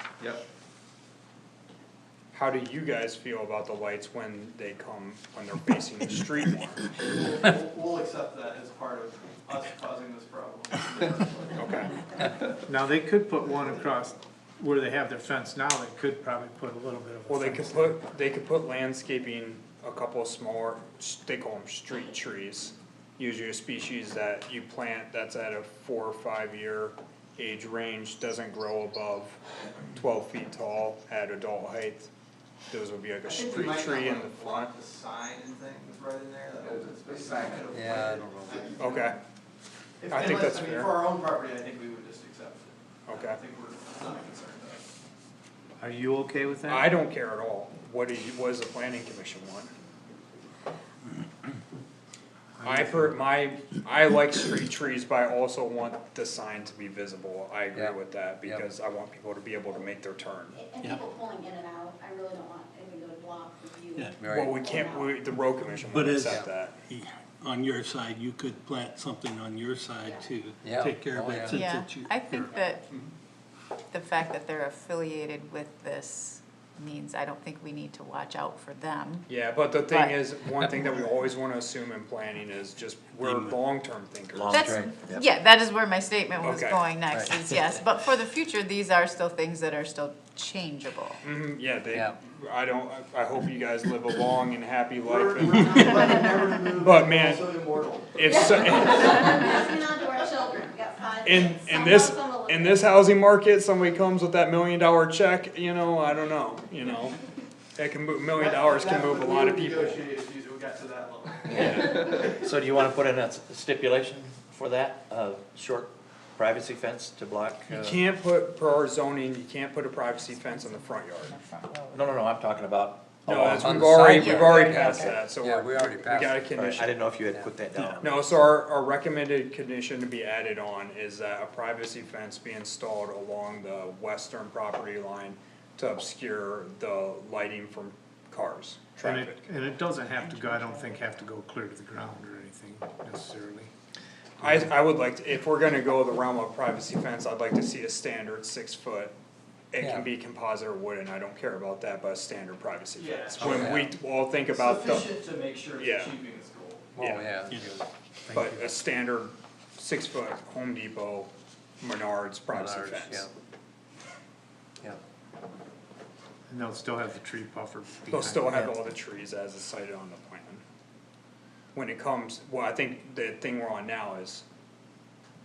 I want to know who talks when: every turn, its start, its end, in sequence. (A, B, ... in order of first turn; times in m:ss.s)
0:02.3-0:06.9 A
0:07.0-0:11.9 B
0:11.6-0:11.9 A
0:12.6-0:18.1 C
0:17.3-0:32.1 A
0:32.7-0:34.7 A
0:33.2-0:39.1 B
0:37.7-0:38.8 D
0:38.8-0:39.2 A
0:40.0-0:44.8 B
0:40.1-0:40.9 A
0:43.1-0:43.4 A
0:45.8-0:47.0 C
0:46.7-0:49.7 A
0:52.6-0:53.2 C
0:52.6-1:00.6 A
0:57.7-0:58.7 D
1:00.5-1:05.1 E
1:04.2-1:04.5 D
1:04.3-1:06.8 A
1:05.8-1:06.4 F
1:06.2-1:06.5 D
1:06.9-1:12.5 F
1:10.6-1:11.6 D
1:11.5-1:12.8 G
1:13.9-1:19.3 G
1:19.3-1:24.8 A
1:19.9-1:20.2 G
1:24.3-1:25.2 H
1:24.5-1:31.2 G
1:26.4-1:26.9 A
1:31.2-1:36.2 A
1:35.1-1:38.8 B
1:36.8-1:37.6 A
1:38.1-1:39.4 A
1:38.2-1:42.9 E
1:41.2-1:47.2 A
1:47.8-1:50.0 A
1:48.4-1:52.4 B
1:51.5-1:57.9 H
1:51.5-1:52.1 A
1:57.7-1:58.0 D
1:57.7-2:01.4 A
2:00.4-2:02.1 G
2:01.9-2:04.0 H
2:03.3-2:07.1 A
2:03.5-2:06.5 D
2:04.1-2:05.2 G
2:06.5-2:08.3 H
2:07.8-2:19.4 A
2:19.0-2:23.7 C
2:20.2-2:21.1 G
2:24.4-2:29.2 A
2:29.7-2:35.1 A
2:29.8-2:30.1 D
2:33.0-2:33.8 B
2:33.4-2:33.9 D
2:34.5-2:36.9 B
2:35.8-2:36.2 A
2:37.0-2:37.9 D
2:37.0-2:37.3 A
2:38.3-2:38.7 C
2:38.3-2:41.3 A
2:41.8-2:43.3 A
2:42.5-2:43.3 D
2:46.5-2:48.8 C
2:48.1-2:50.6 A
2:51.8-2:54.4 A